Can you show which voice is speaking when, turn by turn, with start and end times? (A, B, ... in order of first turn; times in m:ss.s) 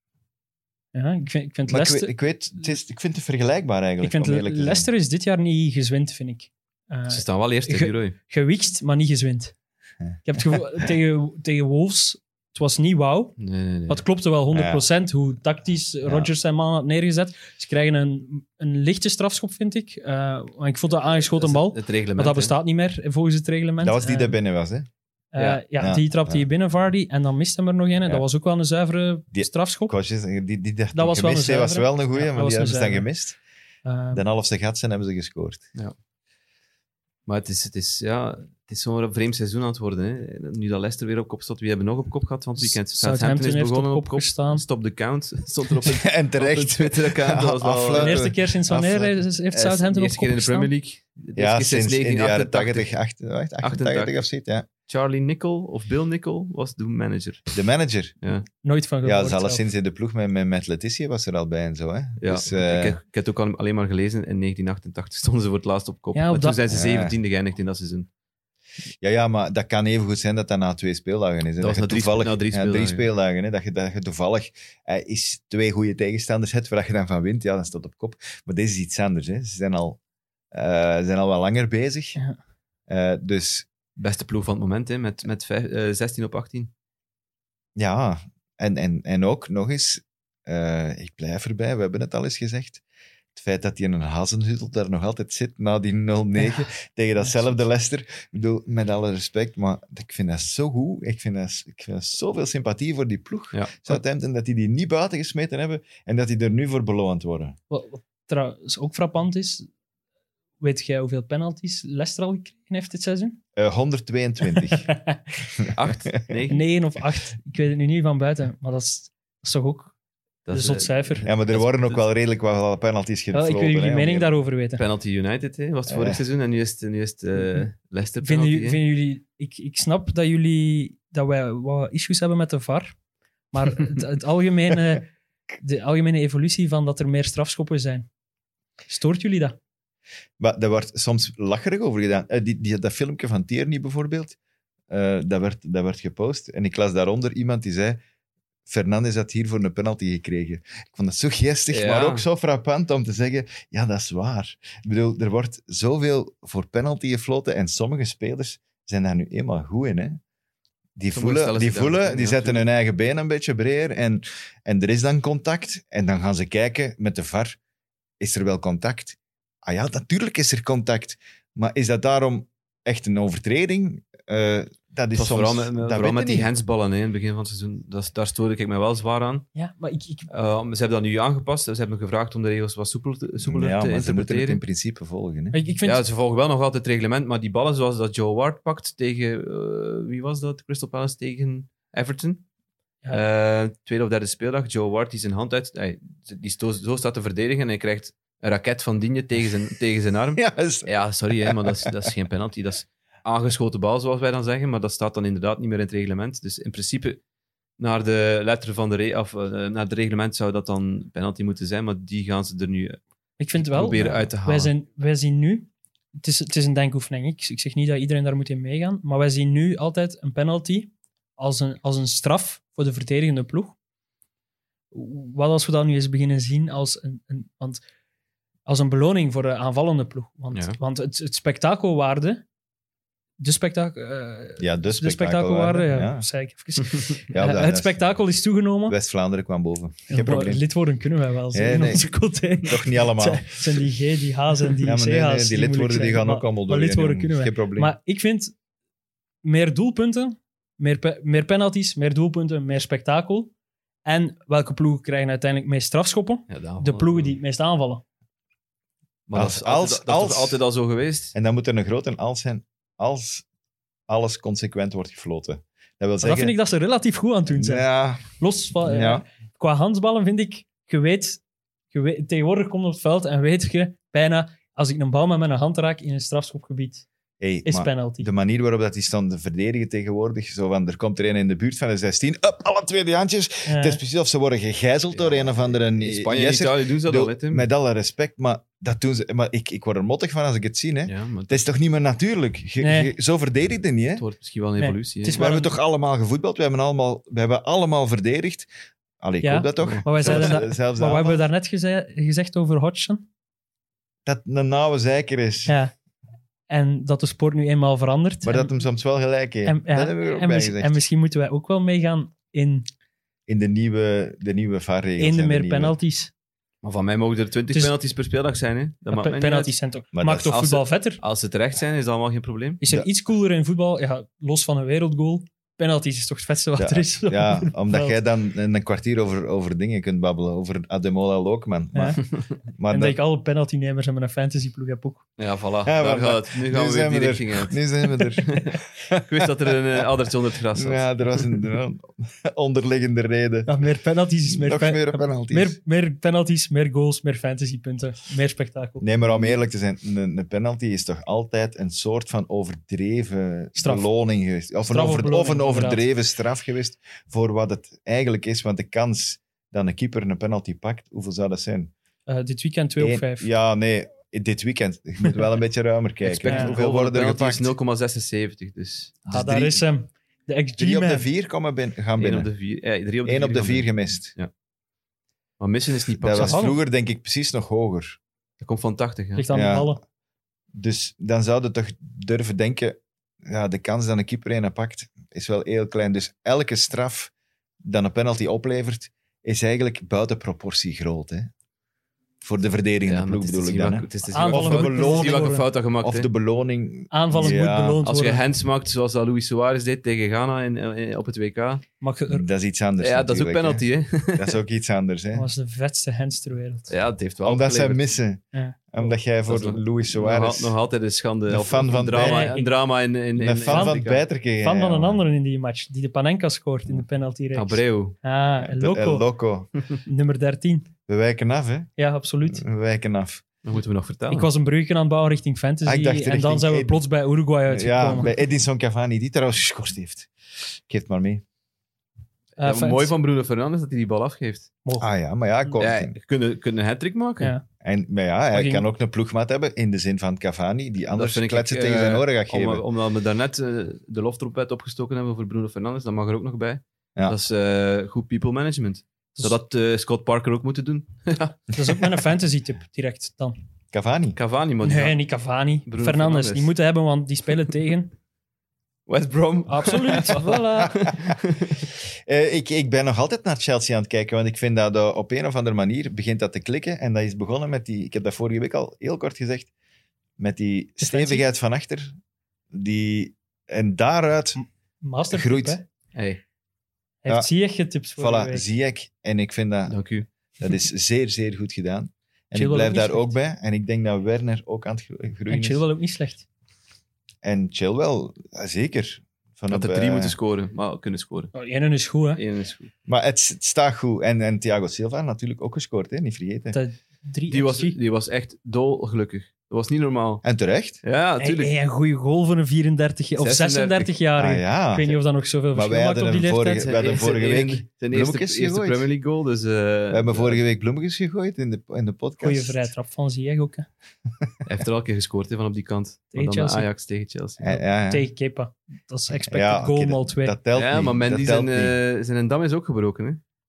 0:00.9-0:02.1 A
0:01.7-0:04.9 B
0:04.0-0:09.5 A
0:07.1-0:08.2 C
0:10.2-0:24.4 A
0:13.4-0:14.0 C
0:14.5-0:14.8 B
0:16.0-0:16.3 B
0:21.2-0:22.5 C
0:23.8-0:24.9 B
0:25.3-0:30.0 A
0:25.4-0:25.6 C
0:25.8-0:26.5 B
0:29.3-0:33.4 B
0:30.9-0:33.1 A
0:33.8-0:34.2 A
0:34.1-0:35.7 B
0:37.3-0:48.2 C
0:42.6-0:44.6 A
0:45.8-0:49.2 B
0:47.9-0:50.7 A
0:49.5-0:52.9 C
0:51.4-0:54.7 B
0:53.6-0:54.2 C
0:54.9-0:57.5 C
0:57.5-0:58.2 B
0:58.6-0:59.6 A
0:59.0-1:03.0 B
1:02.2-1:08.1 C
1:06.1-1:06.6 A
1:06.7-1:07.2 B
1:09.0-1:20.0 B
1:11.6-1:13.1 C
1:20.5-1:22.2 B
1:22.9-1:23.7 B
1:24.0-1:26.7 C
1:27.8-1:32.8 B
1:33.4-1:47.6 B
1:43.5-1:43.9 C
1:47.7-1:49.7 A
1:50.6-1:53.4 A
1:53.6-1:54.9 B
1:54.7-1:55.2 A
1:55.7-1:56.7 C
1:56.5-1:59.9 A
2:00.5-2:02.0 C
2:00.5-2:01.3 A
2:01.2-2:04.3 B
2:03.3-2:04.8 A
2:04.8-2:08.8 C
2:05.9-2:06.2 B
2:08.2-2:13.0 A
2:13.5-2:15.1 A
2:15.6-2:18.1 A
2:18.9-2:19.6 A
2:20.4-2:24.4 B
2:24.9-2:28.0 B
2:28.7-2:40.2 B
2:31.7-2:32.2 C
2:41.0-2:47.6 B
2:41.1-2:42.6 C
2:48.2-2:56.5 B
2:55.1-2:59.5 C
2:59.6-3:00.3 A
3:00.3-3:04.6 C
3:03.4-3:05.6 B
3:05.5-3:06.0 A
3:05.8-3:12.4 C
3:13.1-3:27.2 C
3:20.4-3:21.9 B
3:27.8-3:33.0 C
3:33.4-3:43.8 A
3:33.6-3:34.7 C
3:44.9-3:47.8 A
3:48.7-3:52.4 A
3:53.4-3:59.0 A
3:54.6-3:56.3 B
3:57.3-3:58.0 B
3:58.9-4:00.6 B
4:00.1-4:08.5 A
4:01.5-4:02.1 B
4:02.6-4:03.9 B
4:04.8-4:08.0 B
4:09.4-4:13.5 A
4:14.0-4:18.0 A
4:16.5-4:17.4 C
4:19.3-4:21.3 C
4:19.3-4:20.6 B
4:21.3-4:23.4 B
4:24.1-4:26.6 B
4:26.2-4:31.4 A
4:27.5-4:28.3 B
4:28.8-4:29.3 B
4:31.9-4:37.0 A
4:37.4-4:54.2 B
4:37.6-4:38.3 A
4:43.6-4:44.0 A
4:45.1-4:47.7 C
4:51.1-4:51.7 C
4:52.8-4:53.1 A
4:54.2-4:55.5 C
4:54.8-4:55.7 A
4:55.3-4:58.7 B
4:59.2-5:01.4 B
4:59.4-5:03.3 A
4:59.8-5:00.6 C
5:04.3-5:05.8 B
5:05.7-5:05.9 A
5:06.7-5:08.7 A
5:08.4-5:11.0 B
5:09.6-5:12.9 A
5:13.5-5:16.0 B
5:15.2-5:16.3 A
5:16.8-5:19.7 C
5:19.1-5:21.2 A
5:20.1-5:20.7 B
5:20.5-5:22.8 C
5:22.8-5:28.2 A
5:26.8-5:33.2 B
5:31.9-5:32.2 A
5:32.9-5:35.2 A
5:35.4-5:41.6 C
5:35.8-5:39.8 B
5:40.7-5:43.8 B
5:43.7-5:49.6 A
5:44.5-5:45.8 B
5:49.0-6:01.9 B
5:53.8-5:54.1 A
5:54.9-5:56.0 A
6:02.3-6:03.5 A
6:03.0-6:07.7 B
6:06.2-6:09.2 C
6:06.5-6:06.7 A
6:09.3-6:09.8 B
6:09.3-6:11.3 A
6:10.8-6:12.5 B
6:12.2-6:14.5 C
6:13.2-6:14.4 B
6:15.6-6:16.8 C
6:16.2-6:18.2 B
6:16.4-6:16.8 A
6:18.6-6:19.4 C
6:19.4-6:20.0 A
6:19.5-6:20.0 B
6:20.7-6:27.3 B
6:27.8-6:31.5 B
6:32.4-6:38.0 B
6:33.1-6:36.3 C
6:34.3-6:35.7 A
6:37.1-6:38.4 A
6:38.0-6:41.8 C
6:42.0-6:42.4 A
6:42.3-6:45.5 B
6:43.0-6:44.6 C
6:45.3-6:46.9 A
6:46.9-6:48.0 C
6:47.4-6:50.8 B
6:49.5-6:54.2 C
6:51.5-6:52.5 B
6:52.2-6:52.7 A
6:53.4-6:55.2 B
6:53.7-6:54.0 A
6:54.6-6:59.2 A
6:57.5-6:58.2 C
6:58.6-6:59.7 B
7:00.0-7:00.9 A
7:01.1-7:01.9 B
7:02.0-7:02.6 A
7:02.5-7:03.4 B
7:03.6-7:04.5 C
7:04.3-7:08.3 A
7:05.8-7:07.0 B
7:07.7-7:11.4 B
7:12.6-7:13.1 A
7:12.6-7:14.7 C
7:15.0-7:16.1 B
7:15.8-7:17.5 C
7:17.8-7:22.8 B
7:18.5-7:18.8 A
7:21.1-7:31.7 C
7:31.7-7:33.6 A
7:33.9-7:34.4 B
7:34.4-7:35.2 C
7:34.8-7:38.1 A
7:35.9-7:36.7 C
7:39.1-7:41.9 C
7:39.7-7:41.1 A
7:41.1-7:41.4 B
7:42.2-7:49.7 B
7:50.4-7:52.2 B
7:51.0-7:51.4 A
7:52.7-7:54.6 B
7:54.6-7:55.8 A
7:55.3-7:55.8 B
7:56.1-7:56.4 C
7:57.2-7:58.7 A
7:58.2-8:00.0 B
7:59.9-8:00.3 C
8:00.6-8:05.8 B
8:02.5-8:03.4 A
8:05.5-8:06.4 A
8:07.4-8:10.4 B
8:09.7-8:11.5 C
8:11.6-8:12.4 A
8:12.4-8:12.9 C
8:13.1-8:16.8 B
8:16.7-8:18.0 A
8:17.5-8:20.4 C
8:20.4-8:21.0 B
8:21.0-8:21.7 C
8:21.4-8:26.9 A
8:23.4-8:24.1 C
8:24.4-8:25.2 B
8:25.7-8:29.1 B
8:26.8-8:30.6 C
8:30.1-8:32.9 B
8:32.4-8:33.9 A
8:34.7-8:37.7 C
8:36.3-8:36.9 A
8:37.6-8:38.3 B
8:37.7-8:40.6 A
8:39.4-8:42.0 B
8:40.8-8:43.4 C